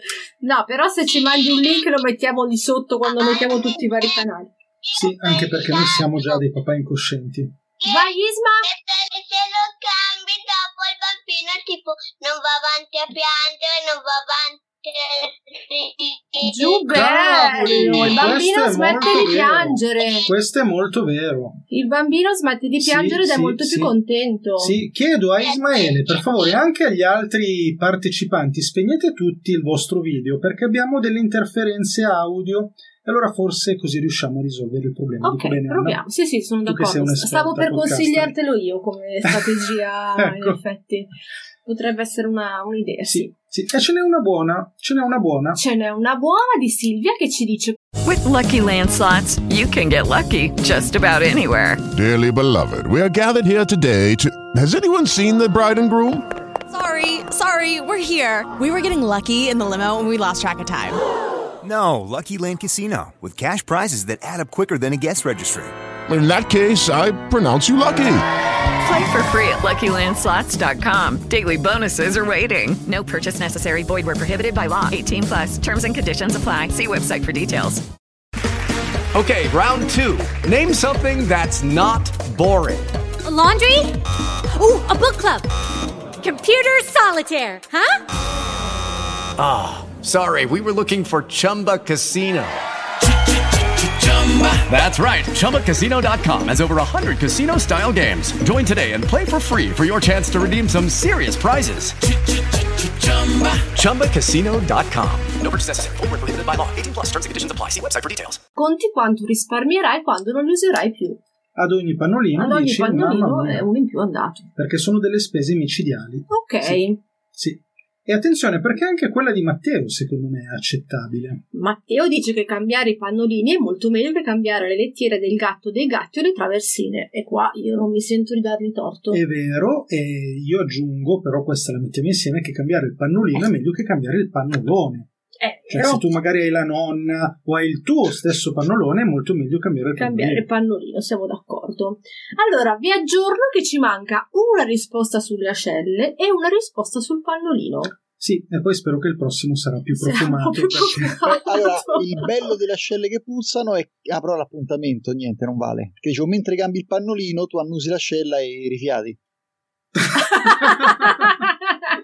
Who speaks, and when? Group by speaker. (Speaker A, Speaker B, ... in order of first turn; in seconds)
Speaker A: 0.4-4.5, 7.9-8.7, 16.4-20.2, 21.7-24.7, 35.2-41.1, 41.6-43.3, 45.5-47.8, 108.6-111.2, 112.4-114.5, 116.3-117.0, 121.5-129.2, 135.4-136.1, 140.0-147.9, 150.0-152.3, 160.3-161.9
Speaker B: 3.1-4.1, 4.9-6.4, 7.8-16.8, 25.4-26.6
Speaker C: 5.0-7.5, 16.9-21.6, 22.8-23.9, 24.6-36.0, 36.6-38.3, 40.2-40.6, 43.1-45.6, 111.6-113.6, 114.6-116.8, 117.3-121.4, 129.1-135.1, 135.7-140.5, 148.2-151.2, 160.2-161.0
Speaker D: 48.0-51.8, 68.8-77.8
Speaker E: 51.9-56.2, 66.1-68.3
Speaker F: 56.7-61.0
Speaker G: 61.6-65.7
Speaker H: 79.1-82.9, 89.4-92.6, 94.0-102.0, 103.0-108.4
Speaker I: 83.2-84.0, 84.5-85.5, 86.2-88.0
Speaker J: 151.2-159.2